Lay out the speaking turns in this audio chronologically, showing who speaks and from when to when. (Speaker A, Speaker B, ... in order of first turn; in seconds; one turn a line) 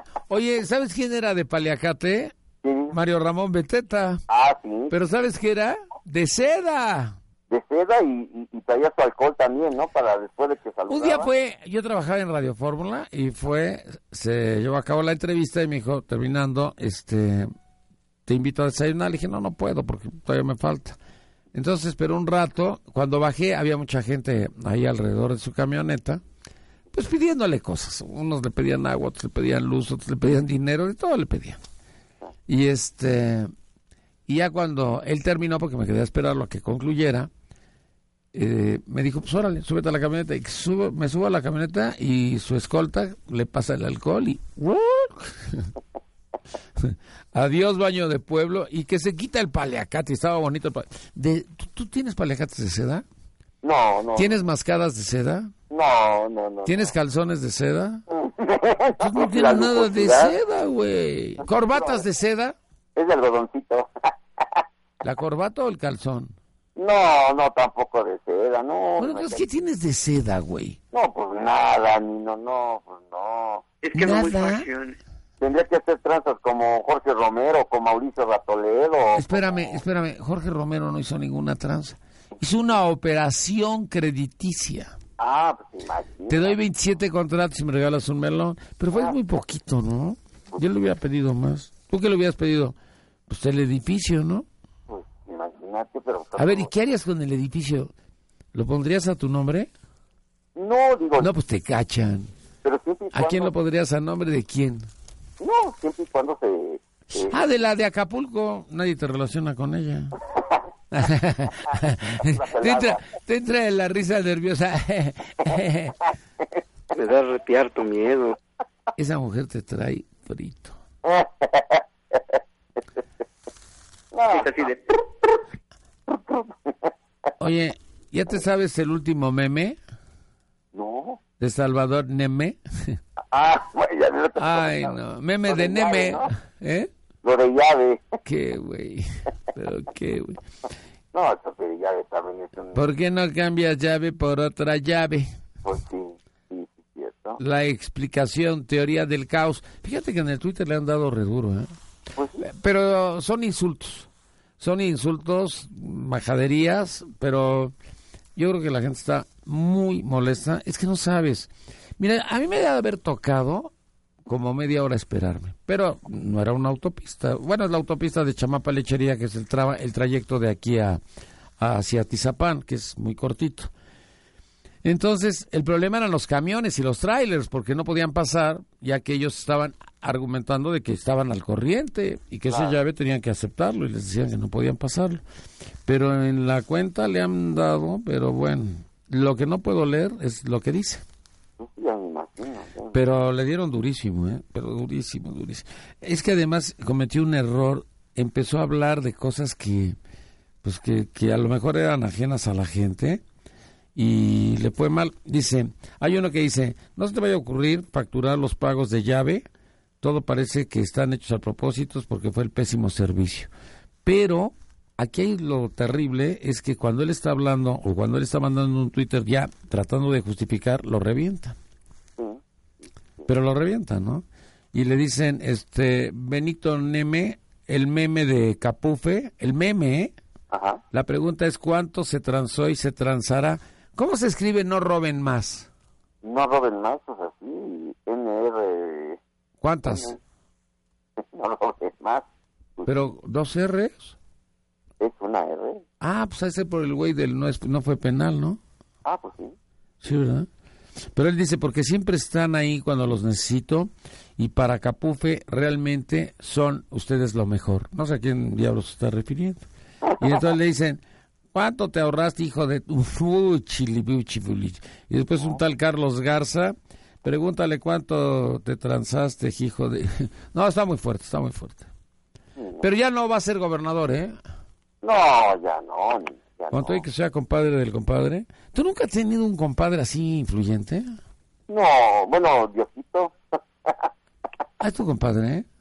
Speaker A: 0.3-2.3
Speaker B: 2.6-2.9
Speaker A: 2.9-4.2
Speaker B: 4.3-5.0
Speaker A: 4.9-7.2
Speaker B: 7.5-11.3
Speaker A: 10.9-17.5
Speaker A: 18.2-21.0
Speaker A: 21.5-26.2
Speaker A: 26.9-31.6
Speaker A: 32.5-33.5
Speaker A: 34.3-37.3
Speaker A: 38.3-45.7
Speaker A: 46.8-53.0
Speaker B: 53.6-54.4
Speaker A: 54.1-55.5
Speaker B: 55.7-56.9
Speaker A: 56.6-58.0
Speaker B: 58.1-60.4
Speaker A: 59.0-62.5
Speaker B: 61.7-62.0
Speaker B: 63.0-64.1
Speaker A: 65.0-66.3
Speaker B: 66.8-69.4
Speaker A: 69.0-70.8
Speaker B: 70.9-73.6
Speaker C: 73.8-75.0
Speaker A: 73.9-74.7
Speaker B: 75.4-79.8
Speaker A: 79.1-84.9
Speaker B: 85.2-86.5
Speaker A: 86.3-92.7
Speaker A: 93.3-94.5
Speaker B: 94.9-96.7
Speaker A: 96.4-97.9
Speaker A: 98.5-99.7
Speaker B: 100.5-101.3
Speaker A: 101.2-102.3
Speaker B: 102.6-103.5
Speaker A: 103.1-104.9
Speaker B: 105.4-107.4
Speaker A: 107.2-110.2
Speaker A: 110.9-116.0
Speaker B: 112.2-113.0
Speaker C: 116.9-118.4
Speaker A: 119.0-120.8
Speaker B: 121.0-122.4
Speaker B: 124.1-124.7
Speaker C: 124.3-124.8
Speaker B: 126.1-126.9
Speaker A: 127.4-129.8
Speaker B: 130.7-131.2
Speaker A: 131.4-133.0
Speaker B: 133.3-136.3
Speaker A: 134.4-136.9
Speaker B: 137.2-138.0
Speaker A: 138.2-140.4
Speaker B: 141.1-142.9
Speaker A: 142.7-145.3
Speaker B: 145.6-147.4
Speaker A: 147.4-151.7
Speaker B: 152.2-152.5
Speaker A: 152.4-157.7
Speaker A: 158.3-163.7
Speaker A: 164.2-171.0
Speaker A: 171.6-173.7
Speaker A: 174.8-185.2
Speaker B: 182.5-182.8
Speaker A: 185.8-191.0
Speaker B: 191.6-193.0
Speaker A: 192.9-200.0
Speaker A: 200.6-203.2
Speaker A: 203.9-209.4
Speaker A: 210.0-213.5
Speaker A: 214.0-221.6
Speaker A: 223.3-230.1
Speaker B: 230.5-230.8
Speaker A: 230.9-235.7
Speaker B: 236.2-239.2
Speaker A: 239.6-240.1
Speaker B: 239.9-240.2
Speaker B: 241.2-242.2
Speaker A: 242.8-244.2
Speaker B: 245.0-245.8
Speaker A: 246.0-248.6
Speaker B: 249.0-249.6
Speaker A: 250.0-250.5
Speaker A: 251.1-259.6
Speaker A: 260.2-261.0
Speaker A: 261.5-271.9
Speaker B: 272.6-272.8
Speaker A: 272.8-274.4
Speaker B: 275.0-277.0
Speaker A: 276.7-281.1
Speaker B: 281.7-284.1
Speaker A: 284.8-285.7